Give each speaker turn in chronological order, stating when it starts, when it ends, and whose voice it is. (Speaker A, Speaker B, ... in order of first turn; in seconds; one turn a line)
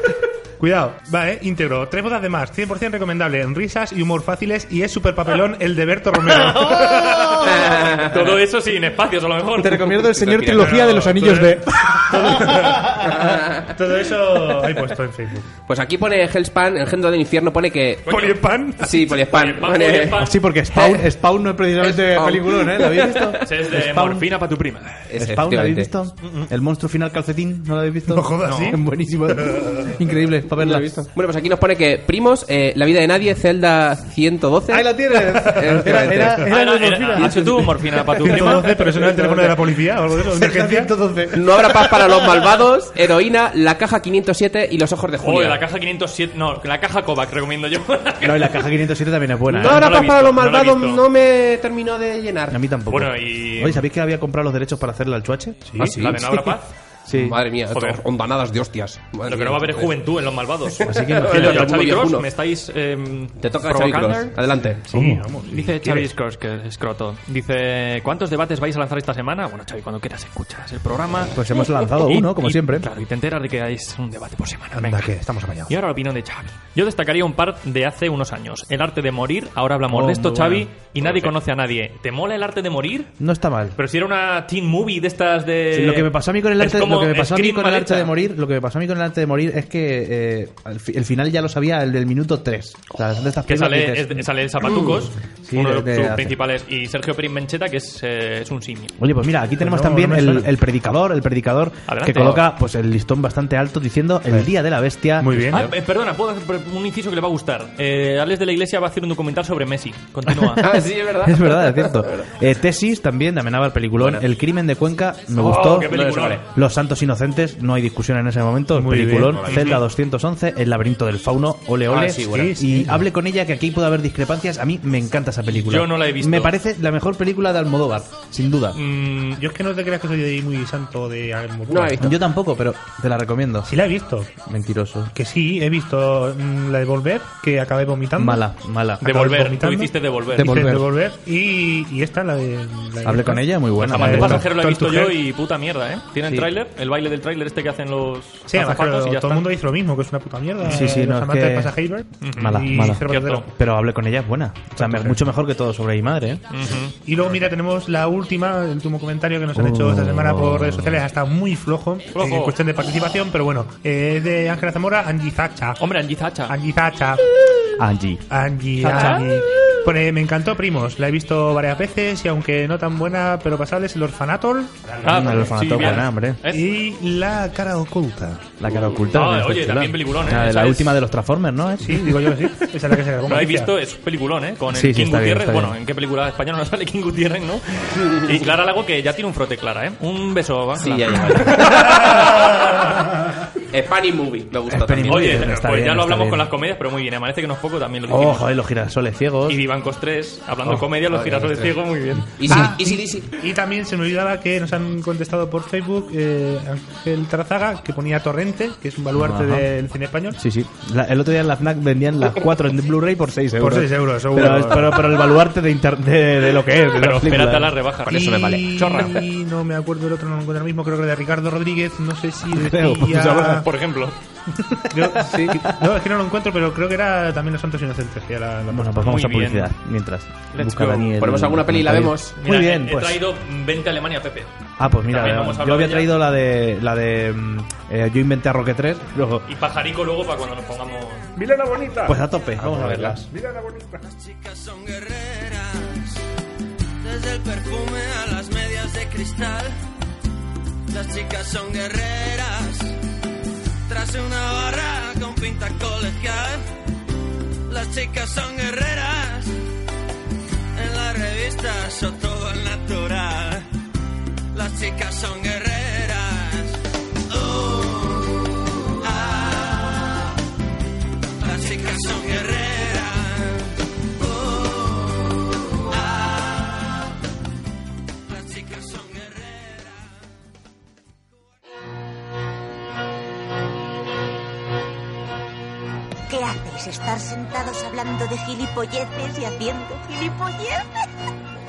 Speaker A: 0.6-7.1
Speaker B: 6.8-11.6
Speaker C: 6.8-7.2
Speaker D: 7.5-8.4
Speaker C: 9.6-11.8
Speaker D: 9.9-11.1
Speaker A: 10.8-12.9
Speaker D: 13.0-13.7
Speaker A: 13.7-15.5
Speaker D: 15.7-21.1
Speaker B: 18.1-18.4
Speaker A: 18.3-19.0
Speaker B: 19.1-20.4
Speaker C: 20.1-24.3
Speaker D: 21.8-23.5
Speaker B: 23.4-25.0
Speaker D: 25.1-25.9
Speaker C: 25.1-31.0
Speaker A: 28.1-28.8
Speaker D: 30.6-36.5
Speaker C: 34.7-39.6
Speaker A: 35.5-35.8
Speaker B: 36.4-38.8
Speaker D: 37.1-37.5
Speaker A: 38.2-40.9
Speaker C: 40.3-41.4
Speaker D: 41.3-45.6
Speaker B: 45.2-48.8
Speaker C: 48.2-49.9
Speaker B: 49.5-51.0
Speaker D: 49.5-52.6
Speaker C: 52.5-56.6
Speaker B: 52.9-53.9
Speaker D: 55.8-56.3
Speaker B: 55.8-56.7
Speaker C: 57.1-57.4
Speaker D: 57.1-59.9
Speaker B: 57.7-58.0
Speaker B: 59.3-64.3
Speaker D: 60.7-62.3
Speaker C: 60.9-61.8
Speaker D: 63.4-64.9
Speaker A: 64.9-66.1
Speaker C: 64.9-65.2
Speaker B: 65.5-75.1
Speaker C: 71.3-72.9
Speaker A: 74.7-75.7
Speaker B: 75.7-83.1
Speaker C: 79.9-81.3
Speaker C: 83.2-83.8
Speaker B: 83.8-88.1
Speaker C: 85.7-96.4
Speaker B: 93.5-98.9
Speaker C: 99.0-105.7
Speaker A: 99.6-100.5
Speaker B: 101.9-102.5
Speaker A: 105.2-105.6
Speaker B: 105.5-110.6
Speaker D: 110.6-112.3
Speaker C: 111.2-115.9
Speaker D: 114.0-114.3
Speaker B: 115.4-116.4
Speaker D: 115.9-116.4
Speaker C: 116.5-128.8
Speaker A: 118.8-119.5
Speaker B: 119.4-119.8
Speaker D: 121.9-122.6
Speaker A: 122.3-123.0
Speaker B: 125.6-126.5
Speaker B: 128.8-129.4
Speaker A: 129.4-132.1
Speaker D: 131.7-132.1
Speaker C: 132.0-133.7
Speaker A: 133.7-134.4
Speaker C: 134.4-135.1
Speaker A: 135.1-138.4
Speaker C: 138.2-139.1
Speaker B: 139.0-140.7
Speaker A: 139.0-145.2
Speaker C: 140.3-140.9
Speaker C: 143.1-144.6
Speaker B: 143.8-149.5
Speaker A: 148.5-153.5
Speaker B: 150.6-150.9
Speaker C: 150.7-151.8
Speaker B: 152.2-153.5
Speaker C: 152.3-156.4
Speaker A: 154.8-155.2
Speaker B: 156.5-157.3
Speaker A: 157.0-165.8
Speaker C: 159.6-161.0
Speaker B: 162.2-162.6
Speaker B: 165.8-166.6
Speaker A: 166.5-167.2
Speaker C: 167.8-168.2
Speaker A: 168.3-175.5
Speaker B: 168.8-169.3
Speaker B: 175.0-176.7
Speaker C: 175.1-176.4
Speaker A: 176.5-178.5
Speaker C: 178.6-182.2
Speaker B: 179.1-181.0
Speaker A: 181.8-183.7
Speaker B: 183.2-192.7
Speaker C: 184.7-185.8
Speaker D: 188.1-188.4
Speaker D: 190.8-192.4
Speaker D: 193.7-195.5
Speaker C: 194.7-196.5
Speaker B: 195.1-198.5
Speaker C: 198.1-199.6
Speaker B: 199.5-202.4
Speaker D: 201.1-201.8
Speaker D: 202.4-203.3
Speaker A: 202.5-210.4
Speaker C: 209.2-209.7
Speaker C: 210.4-217.8
Speaker A: 213.6-215.2
Speaker B: 217.0-219.3
Speaker D: 218.1-219.1
Speaker A: 218.1-223.6
Speaker C: 222.6-223.6
Speaker B: 223.5-224.2
Speaker A: 224.9-229.1
Speaker C: 224.9-225.7
Speaker D: 225.3-225.6
Speaker C: 228.7-233.2
Speaker B: 229.0-229.7
Speaker B: 230.5-231.1
Speaker D: 231.2-232.4
Speaker B: 232.4-234.5
Speaker C: 234.8-239.5
Speaker B: 235.1-236.2
Speaker B: 239.5-241.3
Speaker C: 242.1-243.3
Speaker E: 244.0-246.2
Speaker E: 247.0-249.8
Speaker E: 250.9-253.0
Speaker E: 253.9-256.6
Speaker E: 257.7-259.6
Speaker E: 260.8-263.6
Speaker E: 264.5-266.8
Speaker E: 267.3-268.4
Speaker E: 269.0-270.1
Speaker E: 271.4-276.9
Speaker E: 278.3-280.2
Speaker F: 286.3-290.9